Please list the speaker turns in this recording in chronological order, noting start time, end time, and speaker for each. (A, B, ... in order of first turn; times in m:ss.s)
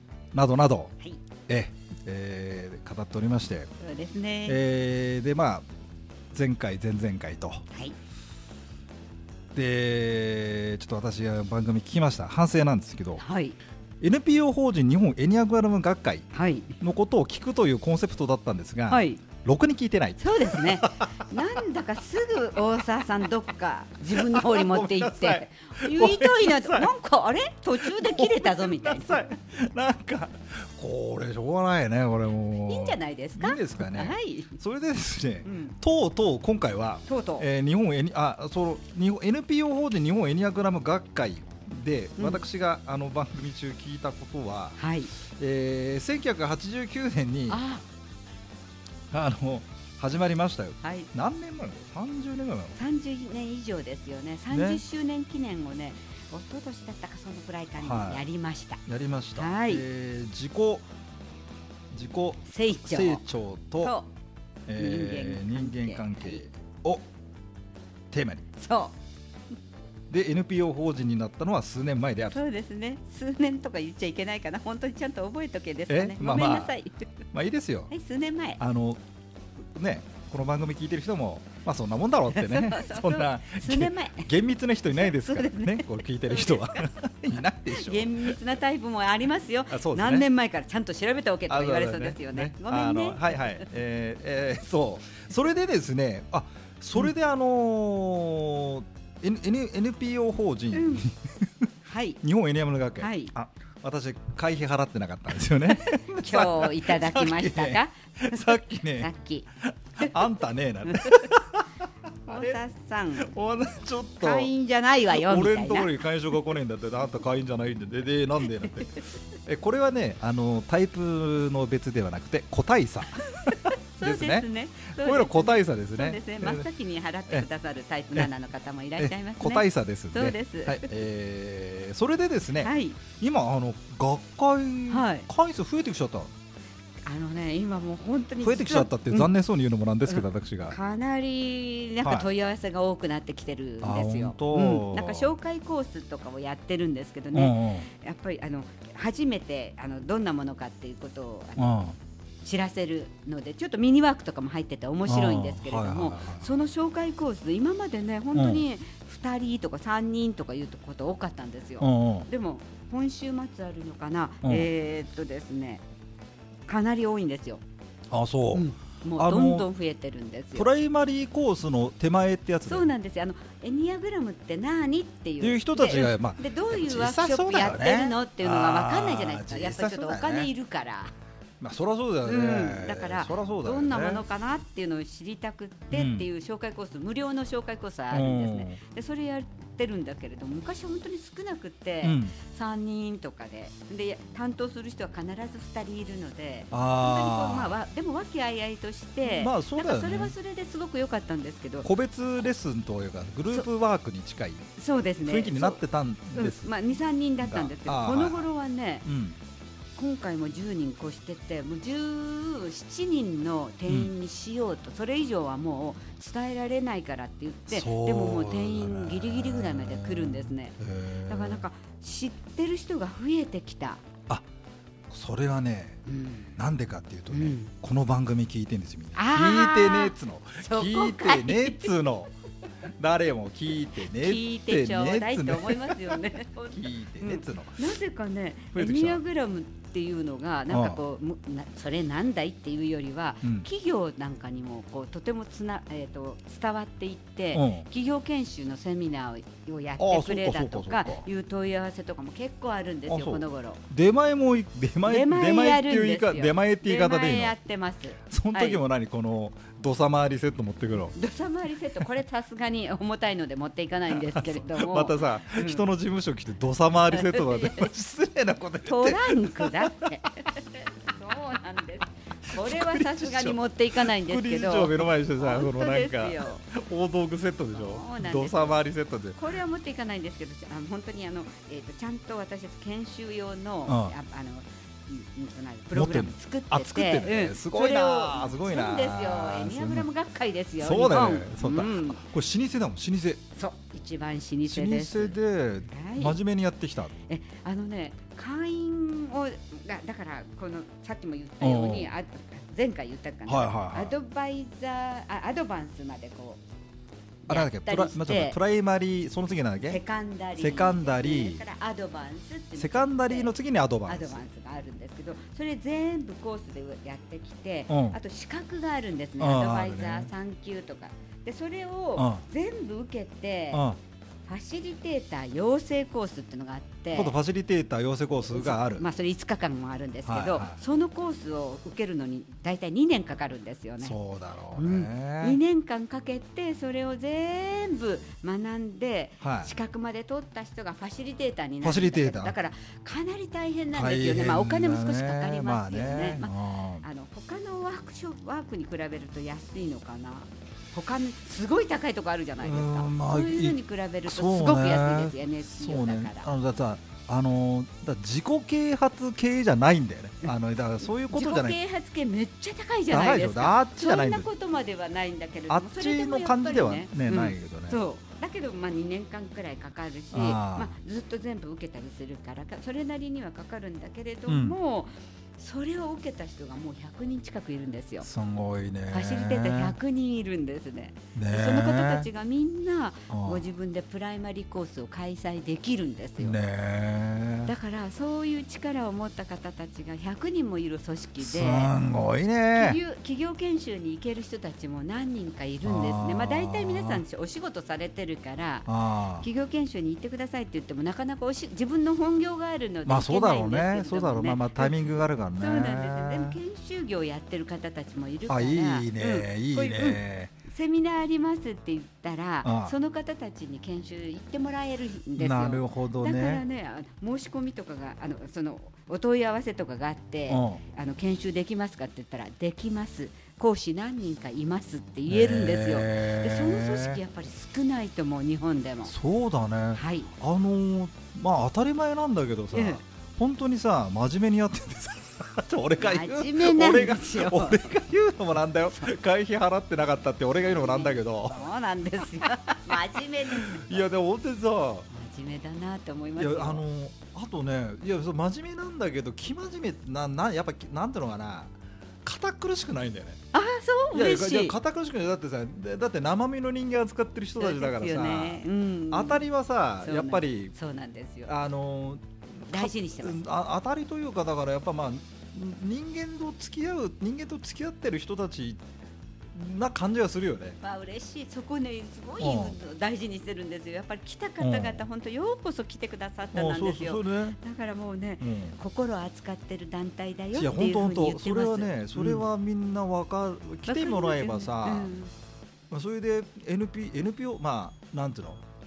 0:00.3-0:00.9 A
0:01.5-0:03.7 A
0:03.8-0:04.6 B
0:04.5-0:05.6 A
0:06.3-0:07.6 A
0:09.6-0:13.2 A
0:13.2-0:13.6 B
0:14.0-0:16.3 A
0:16.3-0:16.8 B
0:16.8-0:21.4 A
0:18.9-0:19.2 B
0:20.2-0:29.3 B
0:24.1-0:26.9 A
0:27.8-0:44.8 A
0:32.7-0:34.6 B
0:35.4-0:35.8 B
0:37.1-0:37.5 B
0:42.2-0:42.5 B
0:44.8-0:45.1 B
0:45.3-0:47.6 A
0:47.5-0:47.8 B
0:49.1-0:52.8 A
0:50.8-0:51.1 B
0:52.8-0:58.8 B
0:54.5-0:54.8 A
0:57.8-0:58.2 A
0:58.9-1:00.9 A
0:59.4-0:59.8 B
1:01.9-1:03.9 A
1:02.5-1:03.2 B
1:03.8-1:04.1 B
1:04.7-1:07.0 A
1:04.8-1:06.5 B
1:08.1-1:08.4 A
1:08.6-1:09.0 B
1:10.1-1:12.4 A
1:12.3-1:17.3 B
1:15.9-1:16.7 A
1:17.3-1:17.9 A
1:17.9-1:18.6 B
1:18.6-1:19.0 A
1:19.7-1:28.4 A
1:22.3-1:24.3 B
1:24.9-1:26.9 B
1:27.7-1:33.6 B
1:29.7-1:30.3 A
1:31.5-1:41.7 A
1:40.7-1:41.0 B
1:41.9-1:42.2 B
1:42.2-1:49.1 A
1:43.0-1:43.3 B
1:45.7-1:49.5 B
1:49.7-1:51.7 A
1:50.9-1:51.3 B
1:52.3-1:52.6 A
1:52.3-1:53.4 B
1:53.2-1:54.5 A
1:54.2-1:56.0 B
1:55.1-2:06.7 A
2:03.3-2:10.9 B
2:09.0-2:16.3 A
2:12.6-2:13.0 B
2:14.9-2:15.3 B
2:17.1-2:19.3 B
2:18.4-2:20.8 A
2:20.1-2:31.8 B
2:22.0-2:22.3 A
2:23.8-2:25.3 A
2:27.3-2:27.9 A
2:31.6-2:32.0 A
2:32.4-2:45.8 B
2:35.1-2:36.5 A
2:38.4-2:38.6 A
2:41.8-2:42.3 A
2:44.4-2:44.7 A
2:46.7-2:47.6 B
2:48.1-2:49.7 A
2:48.5-2:50.7 B
2:50.6-2:52.9 A
2:52.7-3:01.1 B
2:55.4-3:00.5 A
3:01.6-3:04.2 A
3:02.2-3:21.9 B
3:05.9-3:06.3 A
3:08.1-3:08.8 A
3:12.0-3:12.4 A
3:16.7-3:17.8 A
3:19.2-3:20.4 A
3:21.8-3:24.7 A
3:24.8-3:25.8 B
3:25.2-3:26.7 A
3:26.3-3:29.1 B
3:27.4-3:28.5 A
3:29.0-3:29.4 A
3:30.0-3:44.0 B
3:33.9-3:34.1 A
3:37.7-3:41.6 A
3:45.1-3:46.0 A
3:46.1-3:46.6 B
3:46.6-3:52.3 A
3:47.3-3:47.7 B
3:49.2-3:52.0 B
3:53.0-3:57.8 A
3:54.0-4:13.8 B
3:58.7-3:59.2 A
4:00.7-4:01.0 A
4:03.4-4:03.7 A
4:07.5-4:07.9 A
4:10.0-4:11.3 A
4:13.1-4:17.6 A
4:15.0-4:18.8 B
4:18.3-4:21.2 A
4:21.2-4:25.8 B
4:24.1-4:30.3 A
4:27.1-4:27.9 B
4:28.8-4:36.6 B
4:32.5-4:39.4 A
4:37.7-4:38.8 B
4:39.4-4:52.2 B
4:43.9-4:44.2 A
4:45.9-4:50.1 A
4:50.8-4:53.4 A
4:53.6-4:55.4 B
4:54.7-4:57.2 A
4:55.9-4:56.4 B
4:57.3-5:06.6 B
5:01.6-5:02.1 A
5:03.5-5:04.2 A
5:07.5-5:10.0 A
5:07.5-5:08.6 B
5:09.9-5:13.5 B
5:10.6-5:11.6 A
5:12.8-5:14.4 A
5:14.1-5:23.8 B
5:17.9-5:18.2 A
5:19.4-5:20.3 A
5:22.2-5:22.4 A
5:23.7-5:24.0 A
5:24.5-5:27.4 B
5:27.1-5:29.1 A
5:28.5-5:34.2 B
5:30.3-5:30.8 A
5:34.0-5:35.6 A
5:34.8-5:56.5 B
5:39.4-5:39.7 A
5:41.8-5:42.6 A
5:43.9-5:47.0 A
5:52.6-6:01.8 A
6:01.3-6:18.3 B
6:03.1-6:04.5 A
6:05.7-6:08.0 A
6:10.3-6:10.9 A
6:14.5-6:14.8 A
6:18.2-6:20.0 A
6:19.1-6:26.6 B
6:21.4-6:22.3 A
6:23.3-6:23.6 A
6:26.4-6:27.7 A
6:27.7-6:31.9 B
6:31.4-6:33.0 A
6:32.7-7:09.1 B
6:35.8-6:37.2 A
6:38.9-6:39.5 A
6:43.1-6:46.6 A
6:48.5-6:50.5 A
6:52.6-6:52.9 A
6:55.4-6:56.6 A
7:00.5-7:00.8 A
7:05.3-7:07.2 A
7:09.1-7:21.6 A
7:10.0-7:10.3 B
7:12.7-7:13.0 B
7:16.0-7:17.9 B
7:20.6-7:24.0 B
7:23.5-7:25.1 A
7:25.1-7:26.8 B
7:26.4-7:31.7 A
7:32.2-7:33.4 A
7:33.5-7:34.8 B
7:34.1-7:40.7 A
7:37.6-7:39.4 B
7:40.0-7:41.5 B
7:41.5-7:48.8 A
7:42.7-7:43.4 B
7:49.5-7:50.8 A
7:50.8-8:02.4 B
7:52.4-7:52.8 A
7:54.6-7:55.0 A
7:56.5-7:57.6 A
7:58.4-7:58.8 A
8:00.5-8:05.1 A
8:03.9-8:05.3 B
8:05.9-8:08.6 A